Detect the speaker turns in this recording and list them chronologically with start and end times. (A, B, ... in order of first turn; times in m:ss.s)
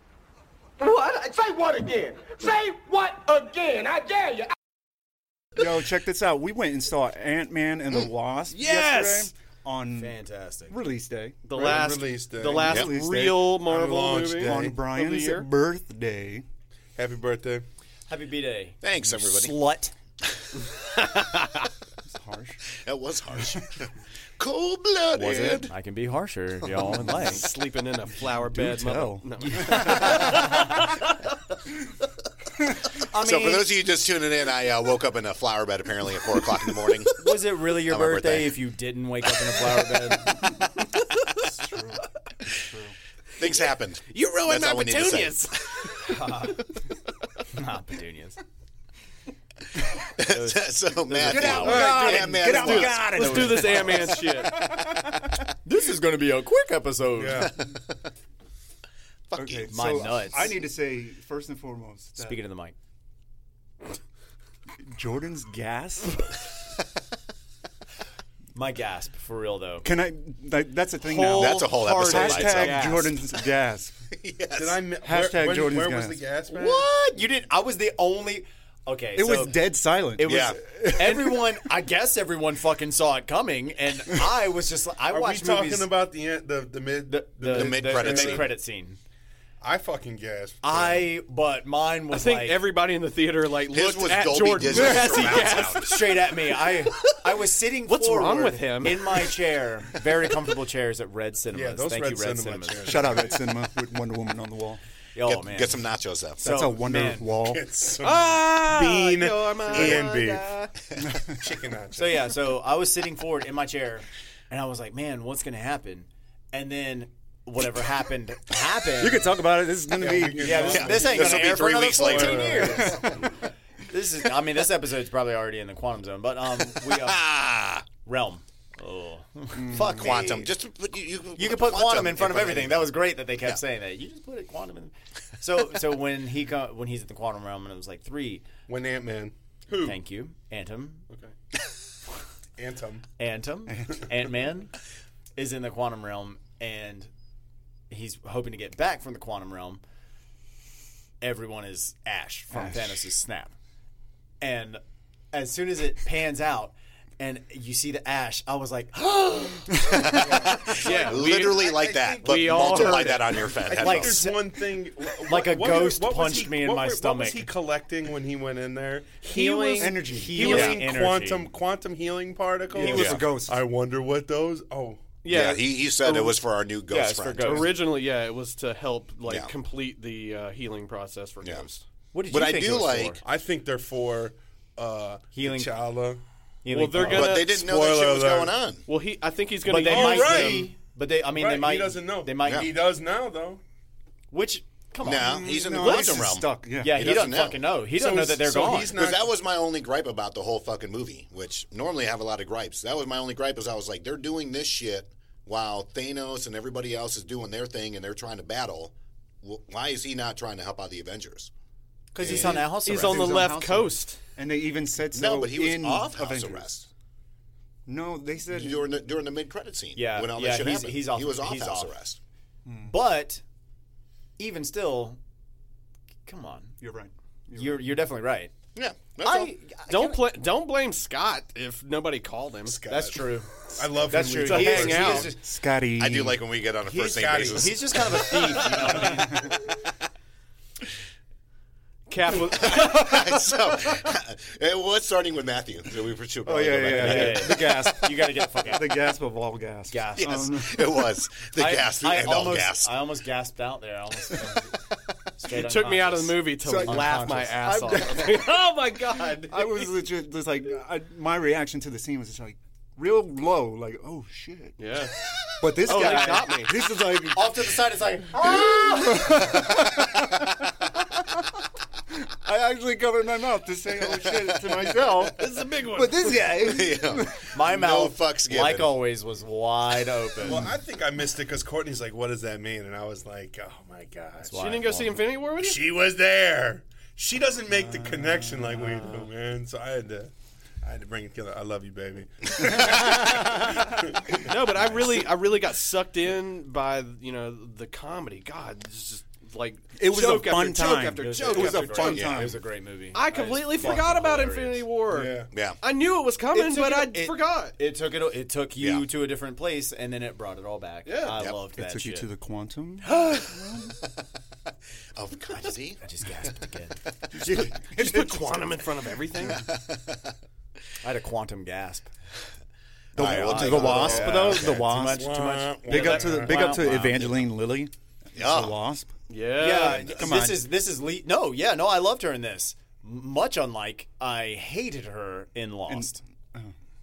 0:00.8-0:04.5 A
0:05.6-0:10.1 B
0:08.5-0:09.3 C
0:09.9-0:10.8 D
0:10.7-0:11.9 B
0:11.4-0:15.5 C
0:11.5-0:12.9 E
0:12.4-0:13.6 B
0:13.6-0:14.8 E
0:14.4-0:16.4 B
0:17.0-0:17.6 E
0:18.1-0:19.9 D
0:18.8-0:19.5 F
0:22.0-0:22.6 B
0:22.8-0:25.7 F
0:25.1-0:27.4 D
0:27.0-0:30.5 C
0:28.1-0:30.4 B
0:33.1-0:33.7 D
0:33.2-0:37.2 F
0:37.2-0:40.4 D
0:37.9-0:38.6 F
0:41.6-0:42.0 B
0:42.5-0:42.9 B
0:43.4-0:45.5 F
0:44.1-0:46.2 C
0:46.0-0:46.6 D
0:47.5-0:48.4 D
0:50.0-0:53.1 F
0:50.3-0:54.1 D
0:51.2-0:55.3 B
0:51.7-0:54.5 C
0:55.6-0:57.5 D
0:57.2-0:57.5 E
0:59.3-1:00.4 F
0:59.4-1:02.4 B
0:59.7-1:00.5 D
1:02.2-1:02.7 D
1:04.8-1:06.2 B
1:08.5-1:09.9 D
1:09.8-1:13.9 B
1:11.0-1:13.1 D
1:11.3-1:13.0 F
1:14.1-1:14.9 F
1:14.6-1:16.8 E
1:15.0-1:16.2 B
1:16.5-1:25.9 D
1:19.1-1:21.7 B
1:20.2-1:20.6 F
1:25.1-1:28.5 E
1:27.1-1:29.0 D
1:27.5-1:28.5 F
1:29.6-1:31.1 E
1:30.6-1:32.6 D
1:32.1-1:35.9 C
1:33.7-1:36.1 F
1:34.6-1:43.1 D
1:37.9-1:39.2 C
1:41.5-1:43.3 E
1:42.8-1:44.8 B
1:45.1-1:45.8 D
1:45.2-1:46.4 F
1:46.4-1:47.3 D
1:46.4-1:47.7 B
1:47.4-1:50.6 E
1:48.0-1:50.7 C
1:51.0-1:51.3 B
1:51.2-1:52.3 E
1:51.9-1:59.3 D
1:59.0-2:01.1 B
1:59.9-2:03.2 E
2:00.4-2:03.1 D
2:00.6-2:02.8 F
2:02.7-2:03.1 B
2:03.9-2:07.2 D
2:06.7-2:07.9 F
2:08.0-2:10.5 D
2:09.5-2:10.0 B
2:09.7-2:13.6 F
2:11.4-2:18.4 D
2:18.7-2:19.9 E
2:19.7-2:21.0 D
2:22.6-2:23.0 E
2:23.2-2:24.7 D
2:23.7-2:23.9 B
2:25.4-2:27.1 D
2:27.9-2:29.8 D
2:31.2-2:33.5 D
2:32.5-2:33.1 B
2:34.4-2:34.8 D
2:35.3-2:40.9 D
2:40.1-2:55.2 E
2:40.2-2:44.2 F
2:40.8-2:43.5 C
2:42.8-2:43.1 D
2:43.7-2:44.5 D
2:45.2-2:47.5 D
2:49.2-2:50.7 C
2:49.3-2:51.5 D
2:49.7-2:50.8 B
2:52.7-2:53.6 B
2:52.7-2:53.2 D
2:52.9-2:53.2 C
2:55.2-2:56.4 C
2:55.2-2:57.7 F
2:56.9-2:57.7 D
2:57.4-3:01.8 C
3:02.1-3:03.2 D
3:02.3-3:03.2 F
3:03.2-3:06.2 E
3:05.3-3:05.7 D
3:06.6-3:07.4 D
3:06.7-3:07.5 C
3:07.0-3:08.8 F
3:07.2-3:08.6 E
3:08.8-3:10.6 C
3:09.7-3:12.7 D
3:09.7-3:10.7 E
3:11.3-3:13.6 E
3:12.4-3:12.7 F
3:14.3-3:16.2 D
3:15.0-3:17.8 F
3:15.0-3:17.1 B
3:16.8-3:19.0 D
3:17.9-3:19.3 E
3:18.9-3:31.5 F
3:32.1-3:33.4 D
3:32.2-3:32.7 F
3:32.8-3:34.2 C
3:32.8-3:36.7 B
3:35.1-3:36.9 F
3:37.9-3:38.8 B
3:38.5-3:42.2 F
3:39.9-3:41.9 D
3:42.6-3:43.0 B
3:42.8-3:43.4 D
3:44.4-3:45.2 D
3:46.2-3:46.8 D
3:46.8-3:48.0 B
3:47.5-3:48.5 D
3:48.7-3:49.5 F
3:49.2-3:50.2 D
3:49.9-3:52.8 C
3:52.6-3:55.3 E
3:52.8-3:55.4 D
3:54.4-3:55.3 C
3:55.4-3:56.4 B
3:56.0-3:57.8 F
3:56.9-3:57.9 E
3:57.2-3:59.5 D
3:58.4-3:59.4 C
4:02.1-4:03.5 C
4:02.5-4:07.8 F
4:06.4-4:11.1 B
4:06.9-4:08.9 D
4:09.9-4:10.5 D
4:10.2-4:12.9 F
4:11.6-4:14.7 D
4:15.4-4:18.0 D
4:15.5-4:19.9 C
4:16.6-4:18.6 B
4:19.5-4:24.8 B
4:24.8-4:26.7 C
4:25.6-4:27.7 B
4:25.9-4:26.5 D
4:27.3-4:29.4 D
4:28.3-4:30.7 B
4:32.2-4:37.5 B
4:34.2-4:34.6 F
4:35.4-4:36.4 C
4:36.5-4:38.9 F
4:37.5-4:40.6 D
4:40.4-4:44.6 E
4:40.5-4:40.7 B
4:44.4-4:45.2 D
4:44.6-4:45.8 C
4:45.6-4:50.3 E
4:47.9-4:49.0 B
4:50.8-4:54.5 E
4:53.2-4:53.6 D
4:54.4-5:02.3 C
5:00.0-5:02.6 B
5:01.2-5:04.8 D
5:02.1-5:02.5 F
5:03.1-5:07.7 C
5:05.1-5:05.5 E
5:05.5-5:05.8 F
5:06.5-5:12.3 D
5:08.8-5:09.0 F
5:11.0-5:11.4 C
5:11.8-5:14.0 B
5:13.1-5:13.4 D
5:15.2-5:16.0 F
5:15.5-5:17.0 D
5:17.3-5:18.8 B
5:17.9-5:19.6 C
5:19.5-5:20.3 F
5:21.0-5:22.1 D
5:23.1-5:25.3 B
5:23.2-5:24.7 F
5:23.2-5:27.4 D
5:23.9-5:24.4 E
5:25.1-5:26.8 E
5:25.9-5:29.1 B
5:28.3-5:28.8 F
5:29.3-5:30.2 C
5:29.6-5:36.2 D
5:29.9-5:30.7 B
5:35.9-5:36.7 B